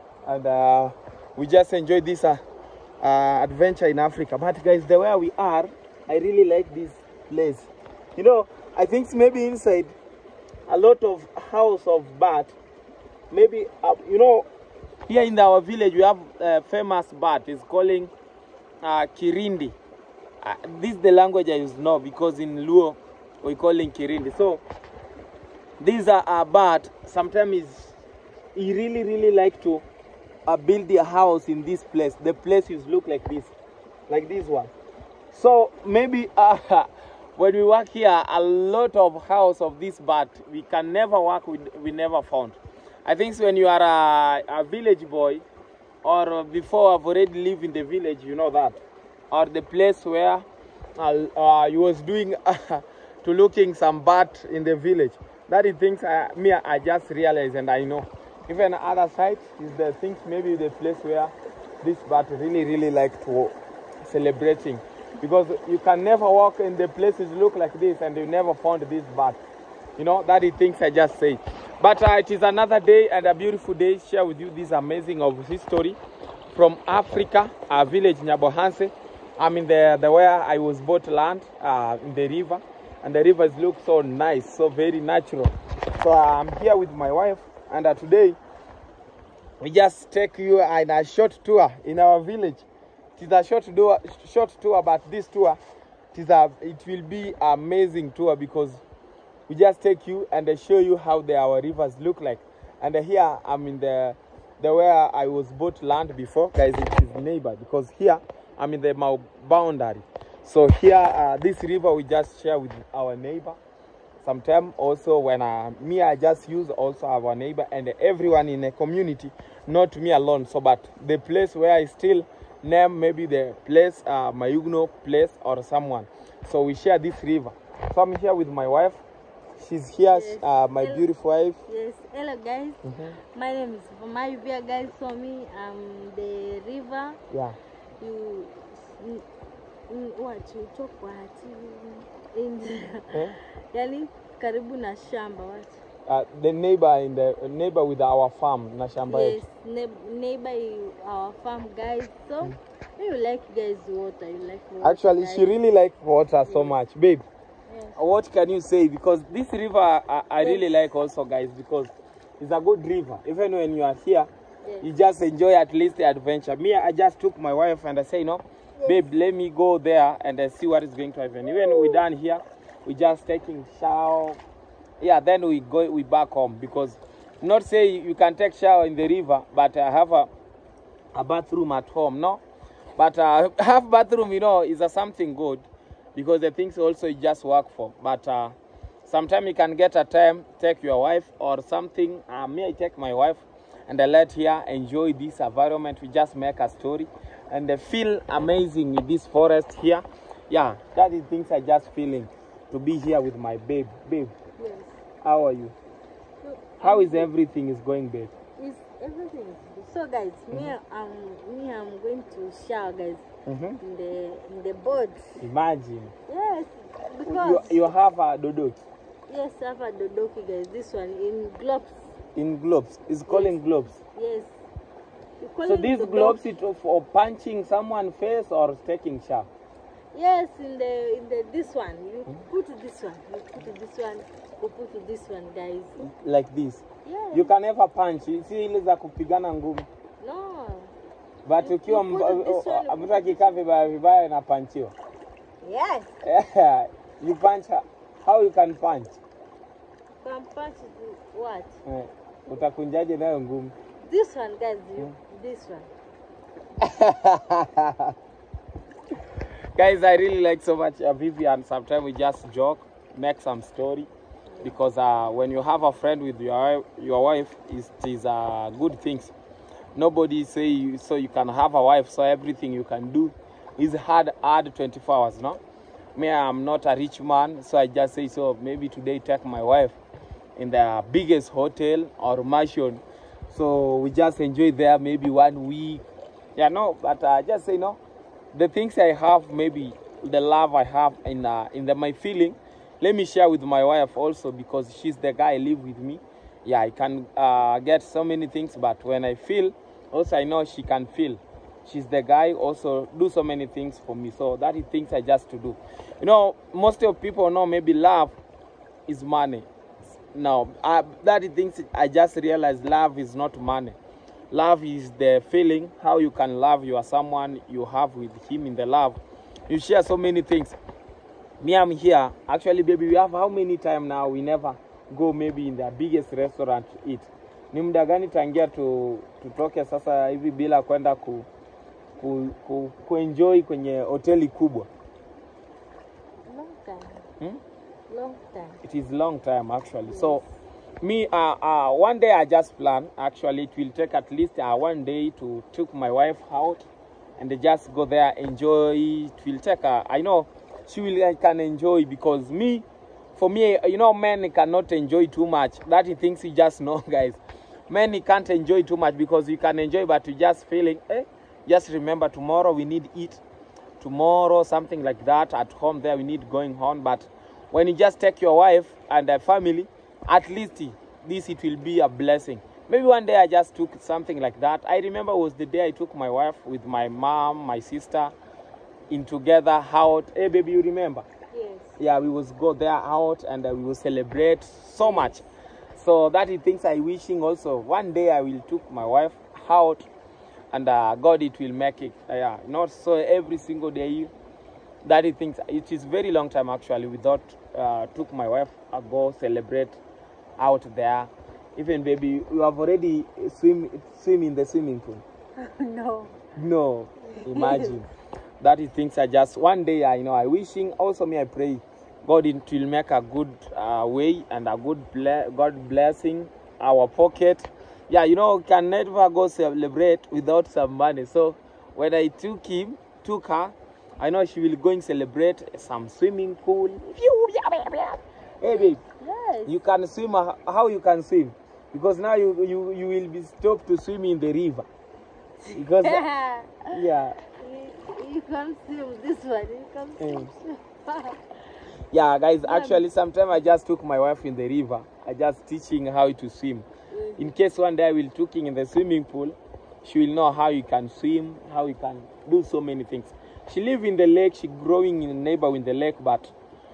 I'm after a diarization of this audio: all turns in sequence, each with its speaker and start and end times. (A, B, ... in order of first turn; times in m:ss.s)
0:00.2-0:02.4 A
0:03.0-0:09.9 A
0:10.7-0:12.6 A
0:13.3-0:14.5 A
0:15.1-0:18.1 A
0:18.8-0:19.8 A
0:20.4-0:24.6 A
0:25.8-0:27.9 A
0:28.6-0:29.8 A
0:30.5-0:33.5 A
0:34.1-0:34.7 A
0:35.3-0:45.4 A
0:46.0-0:48.8 A
0:49.3-1:09.4 A
1:10.0-1:16.0 A
1:16.5-1:28.4 A
1:29.6-1:32.6 A
1:33.2-1:35.6 A
1:36.1-1:38.8 A
1:39.5-1:53.6 A
1:54.2-2:09.0 A
2:09.6-2:11.6 A
2:10.1-2:11.1 B
2:11.7-2:17.2 B
2:12.8-2:13.2 A
2:17.3-2:17.6 A
2:18.0-2:19.2 B
2:19.9-2:25.8 B
2:23.1-2:23.4 A
2:26.1-2:29.4 A
2:29.0-2:35.6 B
2:34.8-2:37.2 A
2:36.5-2:36.8 B
2:37.7-2:38.0 B
2:38.0-2:44.3 A
2:40.4-2:40.7 B
2:44.6-2:44.9 B
2:44.8-2:54.4 A
2:48.8-2:49.0 B
2:51.5-2:52.0 B
2:55.0-3:00.3 A
3:01.1-3:02.4 A
3:03.0-3:24.3 A
3:24.6-3:25.0 B
3:25.2-3:25.7 A
3:26.4-3:27.3 B
3:26.8-3:28.3 A
3:28.6-3:33.2 B
3:33.5-3:33.8 A
3:33.8-3:35.4 B
3:35.4-3:36.1 A
3:36.3-3:37.8 B
3:37.3-3:38.8 A
3:39.3-3:42.1 B
3:42.4-3:44.0 A
3:43.3-3:44.5 B
3:45.4-3:46.4 B
3:45.7-3:49.5 A
3:50.1-3:56.0 B
3:56.0-3:59.9 A
3:57.0-3:57.5 B
4:00.2-4:00.9 B
4:01.5-4:04.9 A
4:01.6-4:03.6 B
4:05.6-4:06.1 B
4:06.2-4:09.2 A
4:10.2-4:11.8 B
4:11.9-4:13.7 A
4:14.1-4:15.9 B
4:16.8-4:18.1 A
4:19.8-4:24.1 A
4:24.5-4:24.8 B
4:24.6-4:29.3 A
4:30.0-4:35.6 A
4:36.2-4:40.0 A
4:40.6-4:48.0 A
4:48.5-5:08.4 A
5:09.1-5:09.7 A
5:10.3-5:14.0 A
5:14.5-5:19.2 A
5:19.7-5:20.8 A
5:21.6-5:31.5 A
5:32.2-5:34.9 A
5:36.5-5:37.2 B
5:38.1-5:38.8 B
5:38.8-5:40.4 A
5:40.1-5:40.4 B
5:41.0-5:46.9 A
5:47.4-5:52.8 A
5:53.4-6:03.4 A
6:04.0-6:18.3 A
6:19.1-6:21.3 A
6:21.5-6:22.0 B
6:22.0-6:25.4 A
6:25.0-6:25.4 B
6:26.0-6:30.1 A
6:30.7-6:34.3 A
6:35.0-6:40.0 A
6:40.6-6:45.2 A
6:45.6-6:46.3 B
6:46.6-6:48.1 A
6:47.5-6:47.9 B
6:48.6-7:09.0 A
7:08.7-7:09.8 B
7:09.7-7:14.9 A
7:15.6-7:21.4 B
7:15.7-7:16.2 A
7:16.9-7:17.4 A
7:20.2-7:20.5 A
7:22.1-7:26.9 A
7:22.6-7:23.0 B
7:27.1-7:27.5 B
7:27.4-7:36.5 A